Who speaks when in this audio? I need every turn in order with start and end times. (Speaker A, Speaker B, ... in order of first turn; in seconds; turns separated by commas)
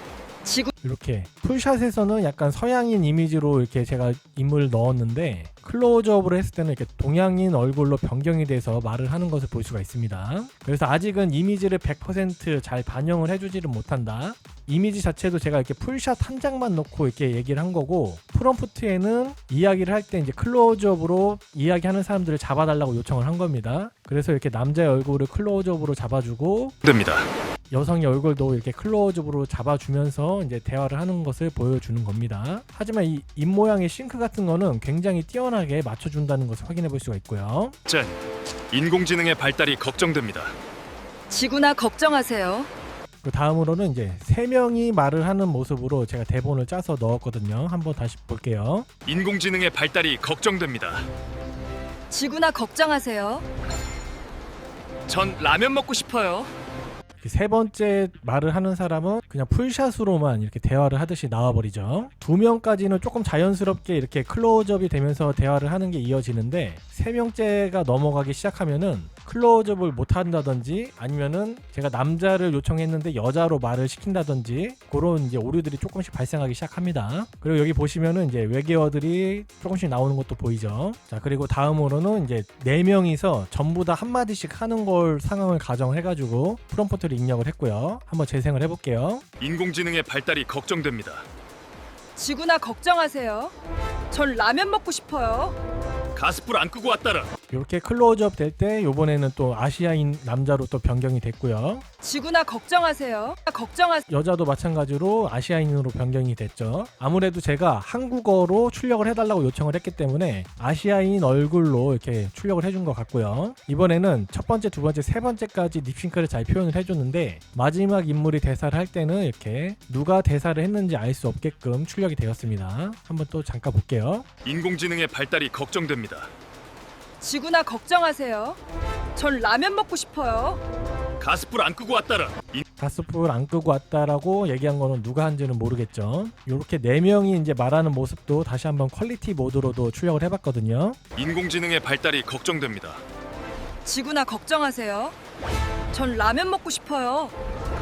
Speaker A: 0.4-0.7, Speaker B: 0.8-26.8, Speaker C: 26.8-27.3, Speaker B: 27.7-37.8, Speaker C: 37.9-38.2, Speaker C: 38.7-40.5, Speaker A: 41.3-42.7, Speaker B: 43.2-48.9, Speaker C: 49.0-51.1, Speaker A: 52.1-53.5, Speaker C: 55.1-56.5, Speaker B: 57.2-89.2, Speaker C: 89.4-91.2, Speaker A: 92.2-93.5, Speaker A: 94.1-95.6, Speaker C: 96.2-97.3, Speaker B: 97.5-101.8, Speaker A: 102.0-104.0, Speaker B: 104.1-124.2, Speaker C: 124.4-126.3, Speaker A: 127.2-128.6, Speaker A: 129.2-130.6, Speaker C: 131.2-132.6, Speaker B: 132.8-141.0, Speaker C: 141.2-143.0, Speaker A: 143.8-145.2, Speaker A: 145.9-147.3